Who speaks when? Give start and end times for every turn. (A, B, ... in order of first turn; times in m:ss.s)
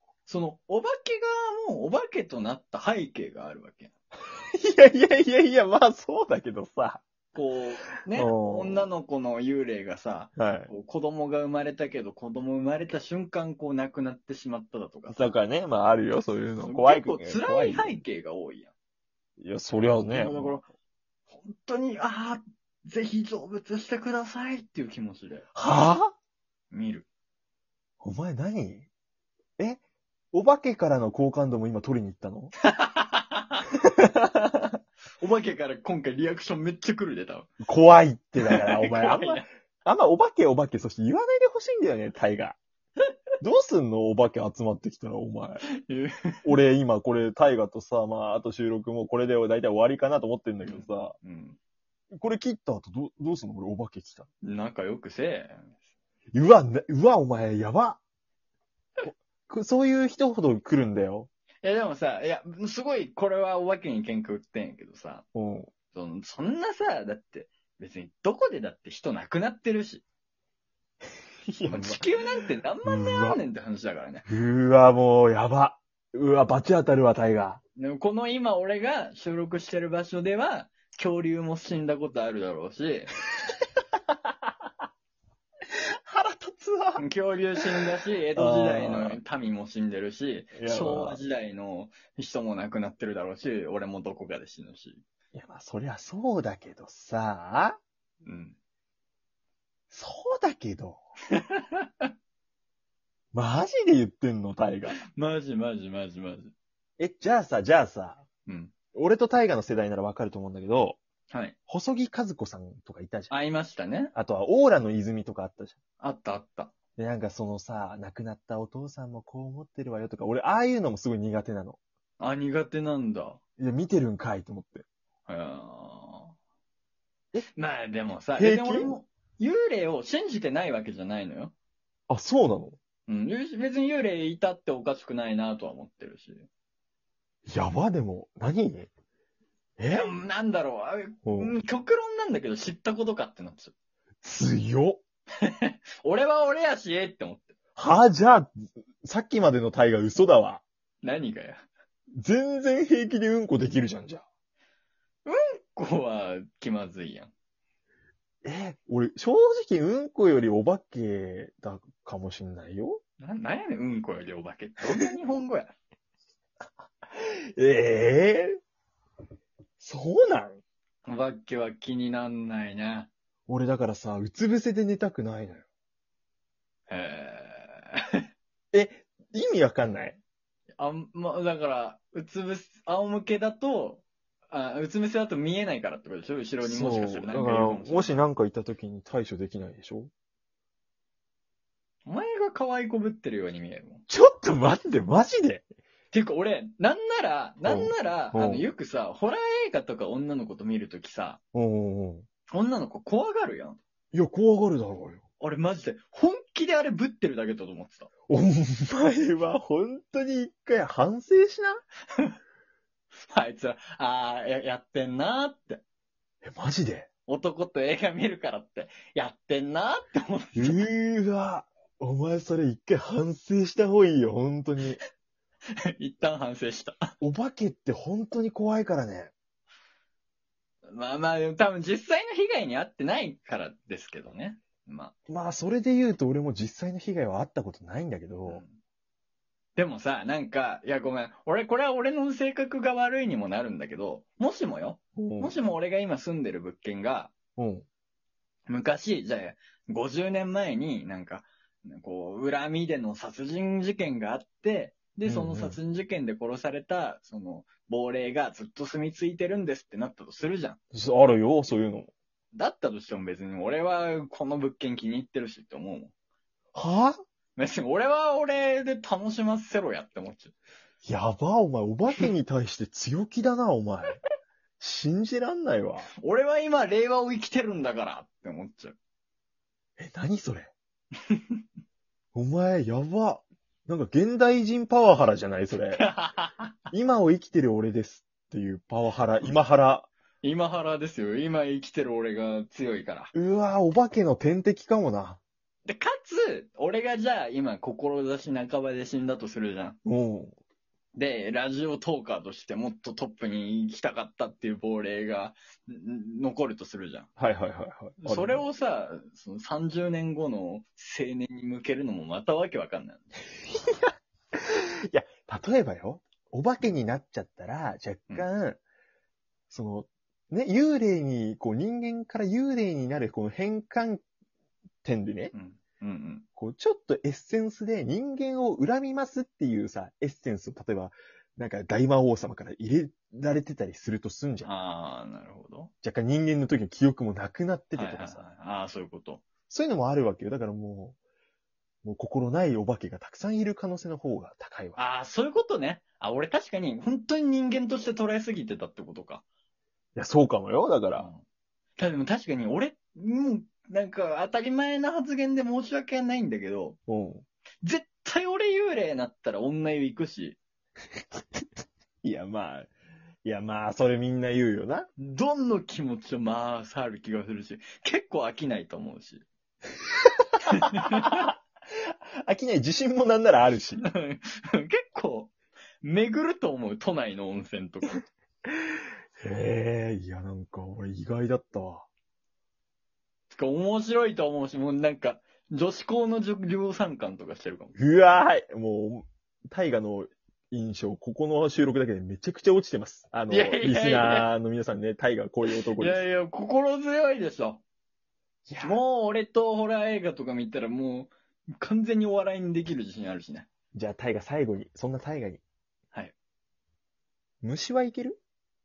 0:00.3-0:03.9 A
0:04.6-0:07.1 B
0:07.4-0:15.2 A
0:08.1-0:08.8 B
0:10.4-0:10.7 B
0:15.1-0:18.0 B
0:16.6-0:18.7 A
0:19.4-0:20.6 B
0:20.1-0:20.7 A
0:21.3-0:25.5 A
0:25.6-0:26.1 B
0:26.7-0:27.1 A
0:28.0-0:28.9 B
0:30.3-0:32.5 B
0:32.6-0:33.6 A
0:33.9-0:34.8 B
0:35.2-0:37.5 A
0:37.6-0:42.6 B
0:38.4-0:39.5 A
0:43.4-0:45.6 B
0:45.7-0:46.5 A
0:46.4-0:51.2 B
0:50.6-0:51.6 A
0:52.1-0:54.3 B
0:54.4-0:55.7 A
0:56.3-0:58.0 B
0:59.0-1:01.3 B
1:01.6-1:05.2 A
1:05.4-1:05.7 B
1:05.9-1:10.0 A
1:11.5-1:12.1 B
1:11.7-1:14.3 A
1:12.8-1:13.4 B
1:14.3-1:17.6 B
1:17.8-1:23.1 A
1:26.0-1:27.0 B
1:27.0-1:35.0 A
1:28.4-1:29.2 B
1:30.5-1:31.2 B
1:35.3-1:37.8 B
1:38.2-1:38.6 A
1:39.9-1:41.0 B
1:41.3-1:42.1 A
1:43.3-1:45.0 B
1:45.1-1:46.5 A
1:47.0-1:48.2 B
1:48.5-1:48.8 A
1:48.9-1:51.0 B
1:51.3-1:51.6 A
1:51.7-1:53.3 B
1:53.3-1:54.1 A
1:54.1-1:55.8 B
1:56.0-1:56.8 A
1:57.0-2:01.8 B
2:02.2-2:03.4 A
2:03.6-2:04.8 B
2:05.3-2:06.3 A
2:07.5-2:11.5 A
2:08.4-2:08.9 B
2:12.1-2:12.8 B
2:13.1-2:16.5 A
2:17.5-2:18.9 B
2:19.8-2:20.2 B
2:19.9-2:23.7 A
2:21.2-2:21.6 B
2:24.2-2:25.0 B
2:25.4-2:27.6 A
2:27.8-2:30.6 B
2:31.0-2:31.6 A
2:32.2-2:34.2 B
2:35.2-2:37.3 A
2:38.4-2:43.0 B
2:43.2-2:45.7 A
2:47.2-2:48.6 B
2:49.8-2:50.6 B
2:51.0-2:53.1 A
2:53.5-2:55.6 B
2:56.9-2:58.3 A
2:58.7-3:00.2 B
3:00.8-3:08.2 A
3:06.6-3:10.1 B
3:12.0-3:14.0 A
3:14.1-3:15.6 B
3:16.1-3:21.4 A
3:17.6-3:18.7 B
3:21.5-3:22.3 B
3:22.5-3:23.8 A
3:24.1-3:25.2 B
3:25.4-3:28.1 A
3:28.3-3:31.8 B
3:33.3-3:35.8 A
3:36.4-3:37.1 B
3:37.3-3:40.8 A
3:40.6-3:45.0 B
3:45.8-3:47.1 A
3:47.2-3:49.3 B
3:50.9-3:55.2 A
3:55.3-3:58.6 B
3:58.5-3:58.8 A
3:59.8-4:07.4 A
4:05.2-4:05.5 B
4:07.6-4:07.8 B
4:08.7-4:20.8 A
4:15.2-4:15.8 B
4:20.9-4:22.1 B
4:22.5-4:26.1 A
4:26.7-4:27.2 B
4:27.6-4:30.5 A
4:31.0-4:34.2 B
4:34.8-4:36.1 B
4:36.2-4:39.0 A
4:40.0-4:40.7 B
4:41.2-4:41.6 A
4:42.3-4:46.0 B
4:46.0-4:46.8 A
4:46.9-4:50.1 B
4:50.4-4:53.3 A
4:53.3-4:55.4 B
4:55.9-5:00.0 A
5:00.0-5:00.6 B
5:01.2-5:07.3 A
5:07.4-5:08.6 B
5:08.2-5:13.3 A
5:13.7-5:18.8 B
5:19.7-5:24.2 B
5:25.0-5:25.5 B
5:25.5-5:26.5 A
5:26.6-5:34.7 B
5:34.6-5:35.9 A
5:36.0-5:38.4 B
5:37.9-5:39.5 A
5:39.7-5:41.2 B
5:42.0-5:45.0 B
5:45.0-5:49.4 A
5:50.2-5:51.3 B
5:51.2-5:51.4 A
5:52.0-5:57.0 A
5:57.1-5:57.4 B
5:57.8-6:00.6 A
6:02.2-6:02.9 B
6:03.4-6:05.1 B
6:05.2-6:09.4 A
6:10.8-6:11.5 A
6:11.1-6:11.5 B
6:12.4-6:14.0 B
6:14.0-6:18.2 A
6:19.4-6:22.1 B
6:23.5-6:27.9 A
6:28.0-6:36.2 B
6:33.5-6:34.5 A
6:36.0-6:37.8 A
6:38.7-6:39.0 B
6:38.8-6:43.7 A
6:43.9-6:45.6 B
6:47.6-6:48.4 B